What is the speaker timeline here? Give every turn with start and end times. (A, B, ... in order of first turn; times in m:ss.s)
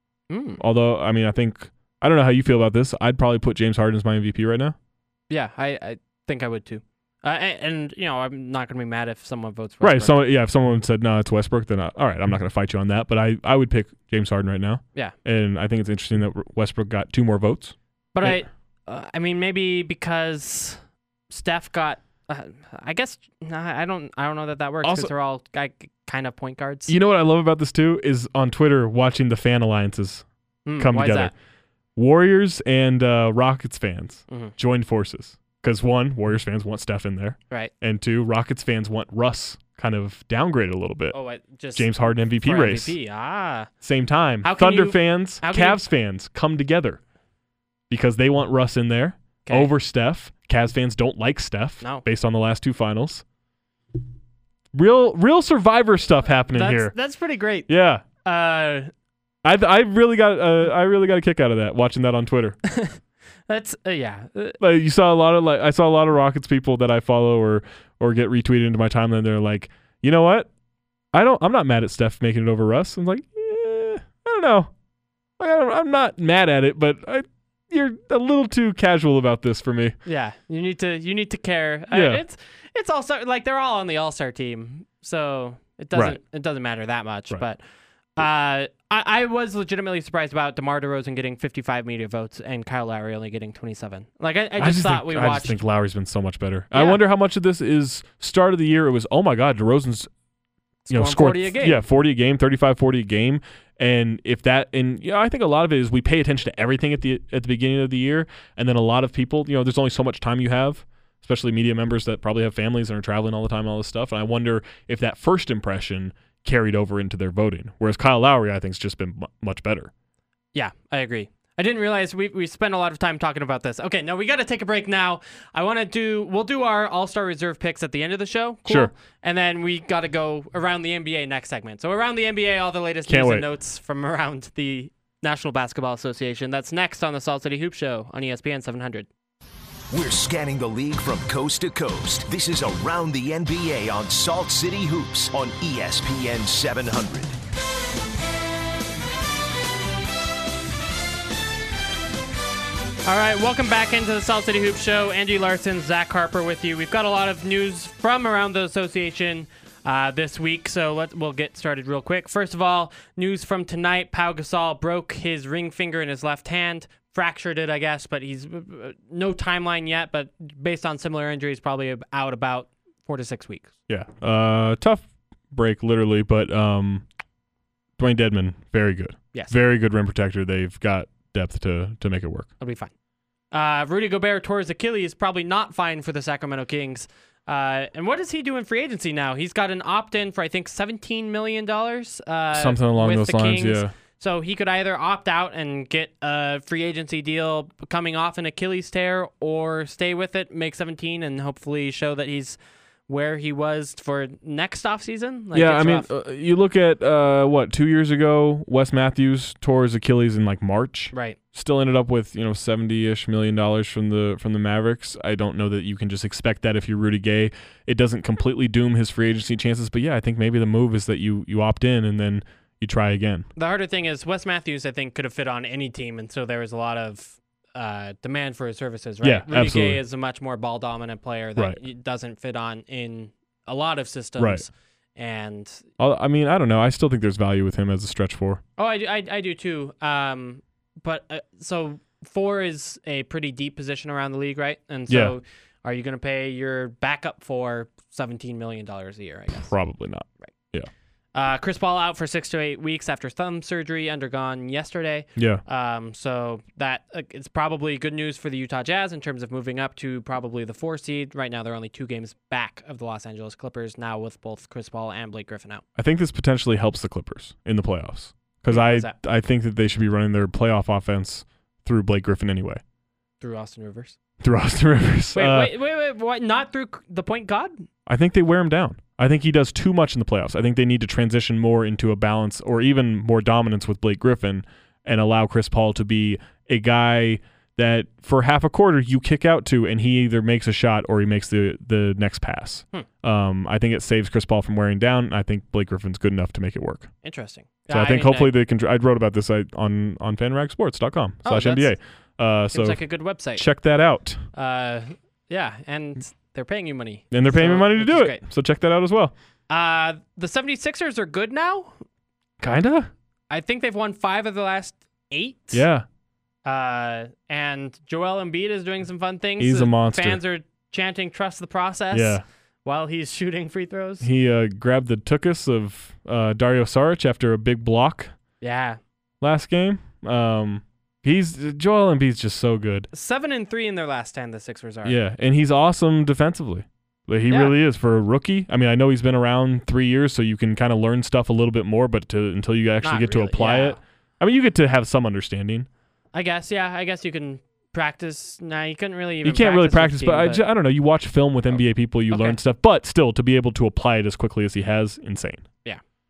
0:00.3-0:00.6 A
0:00.6-0:04.7 B
0:05.3-0:10.2 A
0:09.8-0:18.4 B
0:18.1-0:26.9 A
0:24.8-0:25.1 B
0:26.9-0:30.2 B
0:30.6-0:31.3 A
0:30.8-0:31.3 B
0:32.0-0:41.1 B
0:34.3-0:34.5 A
0:41.1-0:43.7 A
0:41.7-0:42.9 B
0:43.8-0:47.0 B
0:44.4-0:45.8 A
0:47.9-0:53.2 B
0:49.4-0:49.7 A
0:54.7-0:56.9 B
0:56.5-0:57.7 A
0:57.7-0:58.0 B
0:58.2-0:58.9 A
0:59.4-1:02.6 B
1:02.7-1:04.6 A
1:04.6-1:10.5 B
1:11.1-1:14.7 B
1:15.4-1:20.0 B
1:20.0-1:27.6 A
1:21.9-1:22.2 B
1:28.2-1:35.6 A
1:34.6-1:40.1 B
1:36.7-1:37.0 A
1:40.8-1:41.8 A
1:40.9-1:59.9 B
2:00.5-2:19.1 A
2:08.6-2:08.9 B
2:13.1-2:13.4 B
2:19.9-2:27.4 C
2:33.0-2:53.7 A
2:53.9-2:57.0 B
2:58.0-3:02.5 B
3:02.6-3:02.9 A
3:03.5-3:26.1 A
3:12.5-3:13.9 B
3:25.5-3:43.5 B
3:31.1-3:31.4 A
3:43.6-3:55.8 A
3:49.2-3:50.0 B
3:54.4-3:54.6 B
3:56.0-3:58.6 B
3:58.8-4:09.7 A
4:05.1-4:05.4 B
4:09.7-4:10.9 B
4:11.3-4:25.8 A
4:15.4-4:15.6 B
4:26.0-4:32.8 B
4:28.7-4:29.1 A
4:33.4-4:34.2 A
4:34.4-4:35.7 B
4:35.3-4:37.9 A
4:38.1-4:57.1 B
4:57.2-4:58.5 A
4:57.9-5:04.4 B
5:01.4-5:01.9 A
5:02.7-5:03.6 A
5:04.5-5:08.4 A
5:07.3-5:09.3 B
5:09.7-5:12.0 A
5:12.6-5:13.1 B
5:13.5-5:15.8 A
5:15.7-5:16.0 B
5:16.6-5:24.3 A
5:19.6-5:20.4 B
5:22.1-5:22.4 B
5:24.2-5:28.3 B
5:28.6-5:29.0 A
5:29.4-5:33.1 B
5:33.1-5:35.2 A
5:35.0-5:45.9 B
5:37.5-5:37.7 A
5:43.0-5:44.0 A
5:46.3-5:50.6 A
5:49.4-5:55.6 B
5:52.3-5:52.6 A